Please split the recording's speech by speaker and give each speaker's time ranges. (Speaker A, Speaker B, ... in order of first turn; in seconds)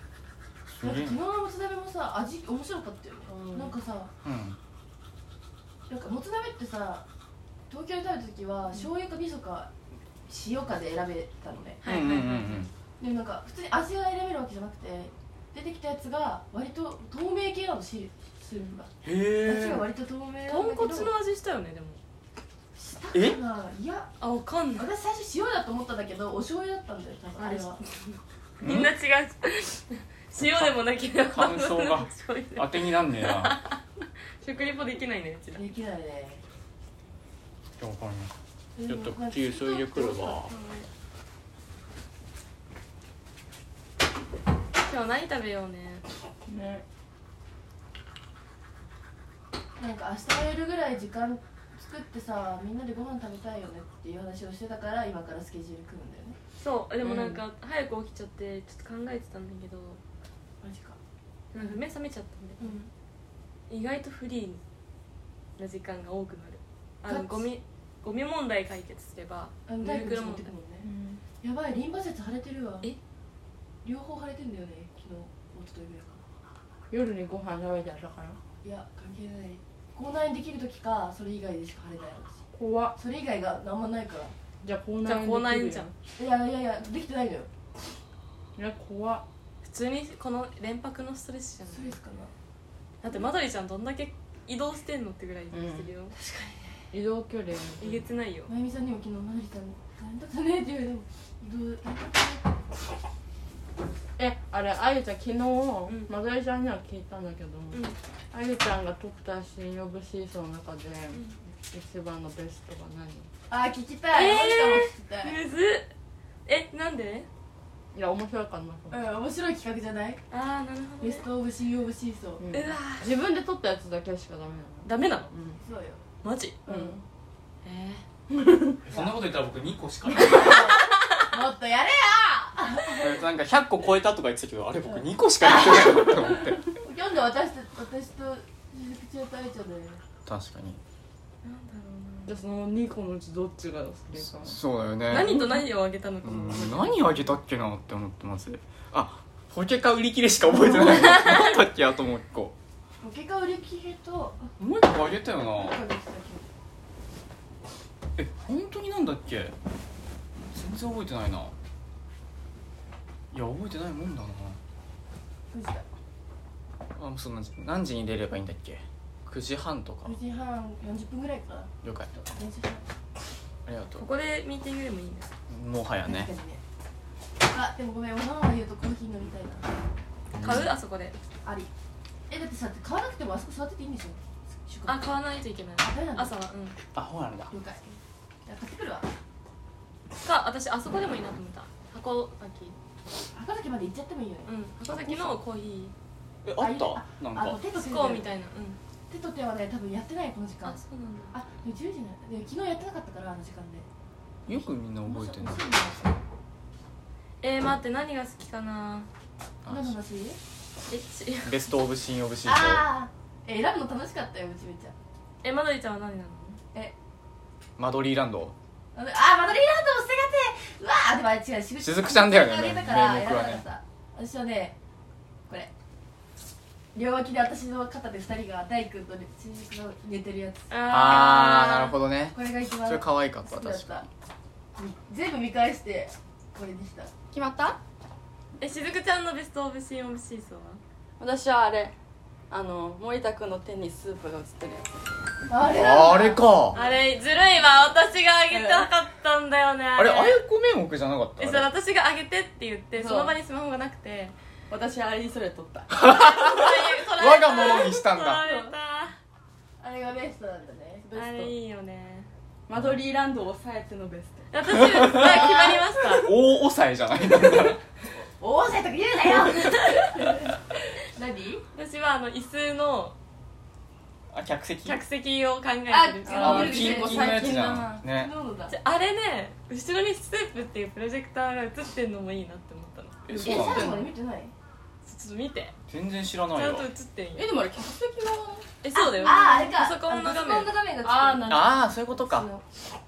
Speaker A: 0.7-1.2, 4.2-4.6, 11.8-12.7, 19.0-19.8, 23.1-23.4, 28.6-28.9, 30.4-30.7, 31.3-33.5, 37.8-38.3, 38.9-40.5, 128.8-130.7, 132.9-136.6, 140.2-140.8, 144.2-145.4, 146.2-152.5, 154.6-155.8, 158.2-159.5, 160.5-161.5, 163.3-164.6, 166.9-170.2, 171.8-172.1, 173.7-174.0, 175.5-176.3, 180.3-180.7, 186.9-187.5, 196.4-197.6, 204.5-206.1, 209.6-209.9, 211.4-212.8, 217.8-218.5, 221.8-223.6, 230.9-234.1, 245.7-246.8, 249.9-251.7, 255.9-258.4, 262.7-263.0, 264.7-265.6, 266.1-267.8, 274.3-275.0, 276.3-278.3, 283.2-284.1, 285.9-286.9, 291.5-292.5
Speaker B: 0.8-4.1, 5.9-7.0, 7.7-9.7, 10.3-11.8, 13.0-21.1, 22.8-24.1, 24.8-27.8, 35.5-36.4, 38.8-40.5, 49.8-56.4, 60.6-61.0, 62.6-62.9, 67.0-67.5, 69.7-70.9, 71.4-72.9, 73.8-76.2, 78.6-82.4, 82.9-84.3, 86.1-87.5, 91.7-92.3, 96.2-96.8, 98.5-102.5, 113.5-115.3, 118.9-120.2, 121.0-122.5, 125.6-126.0, 126.7-126.9, 128.9-129.2, 130.1-133.2, 134.9-140.0, 153.0-154.5, 155.4-156.4, 165.5-165.8, 170.1-172.8, 176.1-176.6, 177.5-179.7, 181.4-181.7, 182.3-185.0, 185.8-186.3, 187.5-189.1, 193.3-195.4, 196.6-198.3, 199.1-200.8, 201.3-203.8, 204.5-206.1, 209.7-210.4, 212.4-214.9, 218.9-224.7, 226.9-230.7, 232.3-234.0, 234.8-237.1, 245.5-246.8, 259.8-261.1, 268.2-271.6, 275.9-278.7, 283.4-284.5, 288.9-292.6
Speaker C: 11.8-12.7, 20.4-22.0, 24.2-24.9, 27.4-33.8, 34.4-35.6, 40.5-40.9, 44.8-46.0, 56.6-60.0, 61.5-62.8, 63.7-64.6, 65.6-70.5, 85.0-85.9, 89.6-92.0, 93.0-96.1, 97.8-98.5, 107.7-108.0, 114.1-115.9, 116.5-117.3, 120.3-121.2, 122.5-123.1, 124.8-125.3, 126.2-126.6, 127.6-128.0, 130.4-131.2, 141.4-142.4, 145.1-147.0, 173.9-175.3, 180.4-181.2, 184.8-186.8, 190.2-192.8, 194.4-195.9, 197.7-198.8, 200.6-201.3, 207.4-209.1, 210.9-211.6, 215.4-216.6, 230.7-231.9, 238.6-240.8, 246.7-250.4, 251.4-254.3, 256.0-259.2, 261.1-262.3, 264.5-266.3, 269.3-270.1, 271.7-273.1, 274.8-276.7, 278.7-283.2, 285.0-285.7, 286.5-287.5, 288.8-290.7
Speaker D: 46.5-46.8, 57.0-57.4, 70.8-71.2, 76.9-78.4, 82.5-83.0, 84.6-85.9, 88.5-89.2, 95.5-95.9, 96.9-98.0, 104.2-113.3, 117.9-119.0, 122.4-125.6, 126.7-127.0, 128.3-128.8, 142.2-144.6, 237.3-237.8, 241.2-241.9, 242.5-244.9, 248.5-248.9, 253.0-253.4, 254.7-256.1, 258.4-258.7, 261.0-261.5, 262.7-264.5, 276.2-278.0, 283.3-284.0, 287.3-288.7, 289.3-289.7, 291.0-291.7